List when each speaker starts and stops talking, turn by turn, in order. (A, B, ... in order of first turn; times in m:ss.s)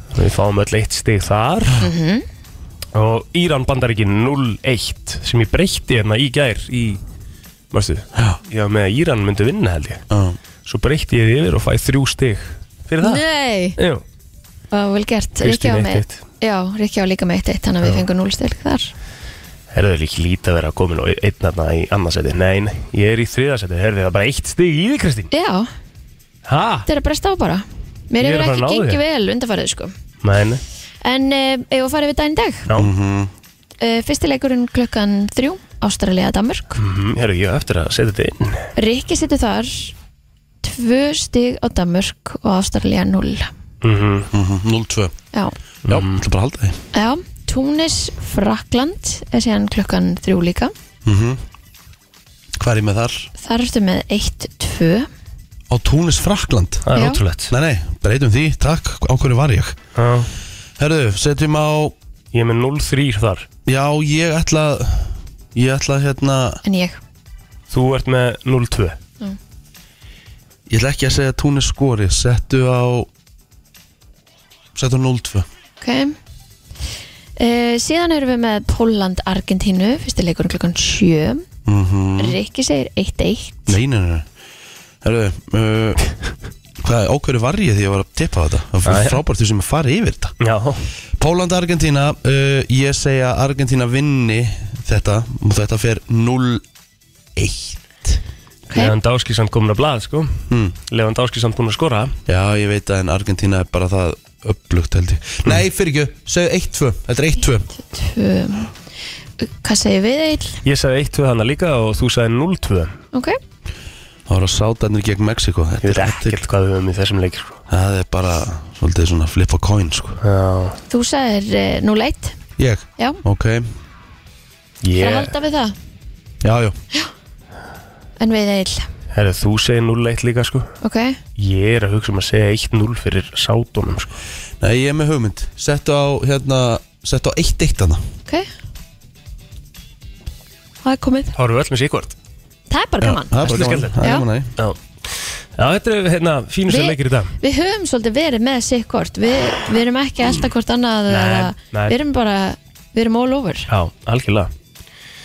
0:00.1-0:01.8 A
0:01.8-0:02.2 B
0:02.9-0:07.0 A
0:07.7-0:10.0 A
0:10.1-0:10.4 C
0:10.6-0:13.2 A
0:13.0-0:13.8 B
0:13.8-0:14.0 A
0:14.7-0:18.9 B
0:15.4-0:16.2 A
0:19.7-0:25.3 A
0:25.3-0:25.7 B
0:26.5-0:26.9 A
0:26.9-0:29.9 B
0:28.2-0:29.0 A
0:30.2-0:30.6 A
0:31.0-0:32.7 B
0:32.7-0:33.3 C
0:33.8-0:36.8 B
0:36.8-0:38.7 A
0:38.8-0:39.9 B
0:40.6-0:43.5 B
0:43.8-0:44.3 A
0:44.3-0:45.1 C
0:45.9-0:46.2 A
0:45.9-0:46.8 C
0:46.9-0:50.7 B
0:51.0-0:51.4 C
0:52.6-0:53.3 C
0:53.4-0:55.1 B
0:55.7-0:56.8 C
0:56.8-0:57.5 A
0:56.9-0:57.2 B
0:57.5-0:59.8 C
1:00.0-1:00.3 A
1:00.8-1:01.9 C
1:02.3-1:03.5 A
1:03.6-1:06.6 C
1:06.6-1:07.0 B
1:07.7-1:09.0 A
1:10.7-1:13.1 C
1:14.7-1:15.4 C
1:15.8-1:16.2 B
1:17.4-1:21.4 B
1:21.6-1:22.4 C
1:22.2-1:23.8 B
1:23.7-1:24.2 C
1:25.0-1:26.0 C
1:26.8-1:30.4 C
1:28.8-1:29.2 A
1:30.4-1:30.8 A
1:31.2-1:36.6 C
1:37.4-1:38.2 C
1:38.7-1:40.4 A
1:40.5-1:40.8 C
1:40.9-1:42.1 A
1:42.3-1:47.7 C
1:47.7-1:48.7 B
1:49.4-1:50.6 B
1:50.6-1:52.9 A
1:53.1-1:53.4 B
1:54.3-1:56.4 C
1:55.8-1:57.6 A
1:57.7-2:00.2 C
2:00.2-2:00.8 A
2:00.9-2:02.4 B
2:02.6-2:03.7 C
2:04.8-2:05.3 A
2:05.0-2:05.7 B
2:06.4-2:06.8 C
2:08.2-2:08.8 B
2:09.1-2:10.7 A
2:10.8-2:11.2 B
2:11.4-2:14.1 A
2:14.6-2:18.0 C
2:20.8-2:21.3 B
2:21.4-2:22.1 A
2:22.7-2:23.4 B
2:23.0-2:24.5 C
2:23.4-2:24.0 A
2:24.0-2:24.2 B
2:25.6-2:27.3 A
2:26.7-2:33.6 B
2:31.1-2:32.0 A
2:33.7-2:34.5 A